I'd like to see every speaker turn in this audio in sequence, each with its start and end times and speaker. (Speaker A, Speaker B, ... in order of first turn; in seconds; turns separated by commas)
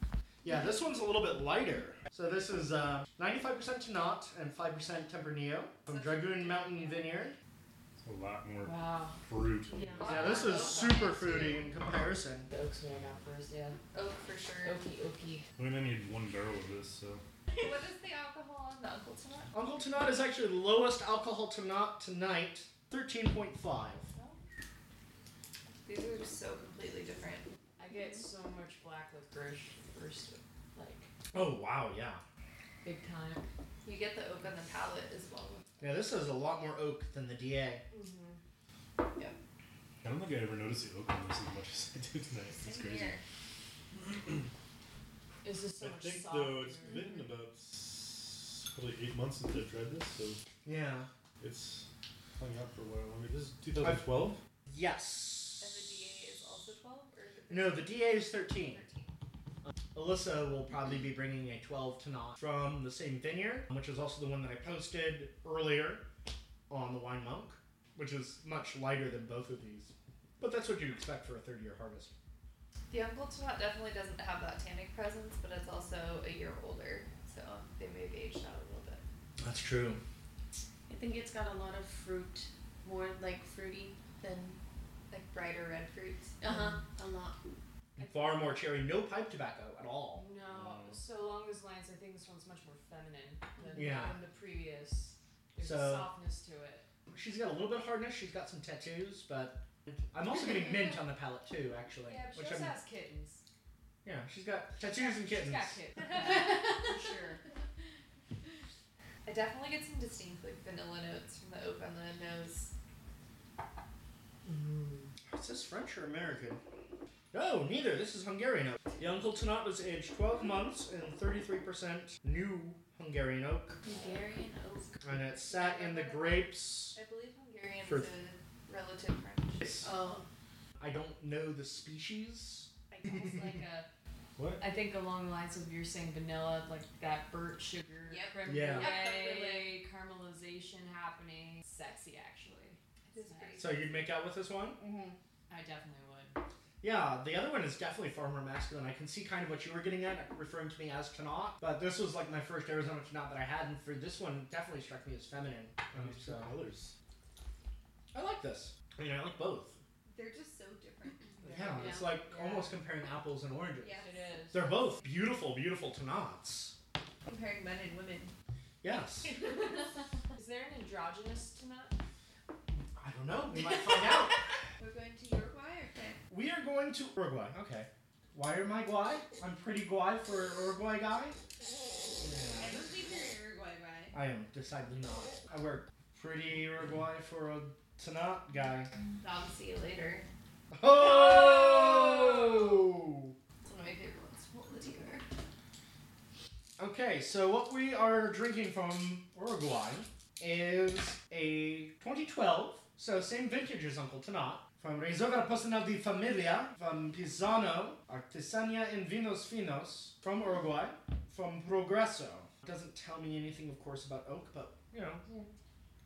Speaker A: 0.4-7.4, Speaker B: 5.9-7.0, Speaker C: 8.0-9.9, Speaker B: 8.6-9.2, Speaker D: 9.7-10.4, Speaker E: 9.9-11.4, Speaker A: 10.0-12.5, Speaker B: 10.1-11.8, Speaker B: 12.5-13.8, Speaker E: 13.9-14.8, Speaker B: 14.6-15.5, Speaker C: 15.6-17.2, Speaker E: 17.6-19.5, Speaker A: 19.5-24.1, Speaker E: 24.1-24.4, Speaker E: 25.9-27.5, Speaker B: 27.8-31.1, Speaker A: 31.3-32.2, Speaker B: 32.8-33.5, Speaker E: 33.8-35.6, Speaker A: 35.8-37.8, Speaker B: 37.9-38.4, Speaker C: 40.0-43.2, Speaker D: 42.7-42.9, Speaker C: 44.0-44.5, Speaker B: 45.4-47.1, Speaker C: 45.8-50.4, Speaker A: 50.6-51.1, Speaker C: 51.4-51.9, Speaker C: 52.4-54.4, Speaker A: 53.8-54.1, Speaker A: 54.7-56.0, Speaker E: 55.6-59.1, Speaker A: 57.5-58.8, Speaker A: 59.7-66.0, Speaker A: 66.7-72.1, Speaker E: 72.9-79.0, Speaker A: 79.4-80.0, Speaker D: 80.9-84.6, Speaker E: 85.1-86.4, Speaker D: 86.4-87.4, Speaker A: 88.0-90.2, Speaker B: 88.0-88.5, Speaker B: 90.2-96.9, Speaker C: 90.5-91.0, Speaker A: 93.8-94.2, Speaker A: 95.6-96.1, Speaker A: 97.1-102.8, Speaker B: 102.0-103.4, Speaker A: 104.0-105.8, Speaker B: 104.8-107.4, Speaker E: 106.1-107.0, Speaker E: 109.3-112.7, Speaker A: 115.3-116.6, Speaker A: 117.3-123.8, Speaker D: 123.8-125.0, Speaker A: 125.0-127.0, Speaker E: 125.4-129.9, Speaker A: 127.8-128.1, Speaker A: 129.6-129.9, Speaker D: 129.8-130.2, Speaker A: 130.8-133.6, Speaker B: 132.9-133.9, Speaker C: 134.4-134.6, Speaker B: 134.6-143.7, Speaker E: 138.1-139.7, Speaker A: 138.5-138.9, Speaker E: 143.1-144.0, Speaker A: 143.6-144.8, Speaker E: 144.8-145.2, Speaker B: 145.5-146.4, Speaker A: 146.8-156.6, Speaker C: 155.9-156.9, Speaker A: 158.1-159.8, Speaker E: 160.1-162.2, Speaker A: 161.4-166.8, Speaker B: 161.6-162.7, Speaker E: 163.8-164.4, Speaker B: 164.0-164.9, Speaker E: 167.2-168.3, Speaker A: 168.8-169.4, Speaker B: 170.3-172.0, Speaker A: 173.0-174.4, Speaker E: 174.8-176.2, Speaker A: 176.3-181.4, Speaker A: 182.2-182.9, Speaker E: 182.6-184.2, Speaker A: 184.1-188.9, Speaker E: 189.2-190.2, Speaker A: 190.7-193.4, Speaker E: 193.6-195.2, Speaker A: 196.8-215.2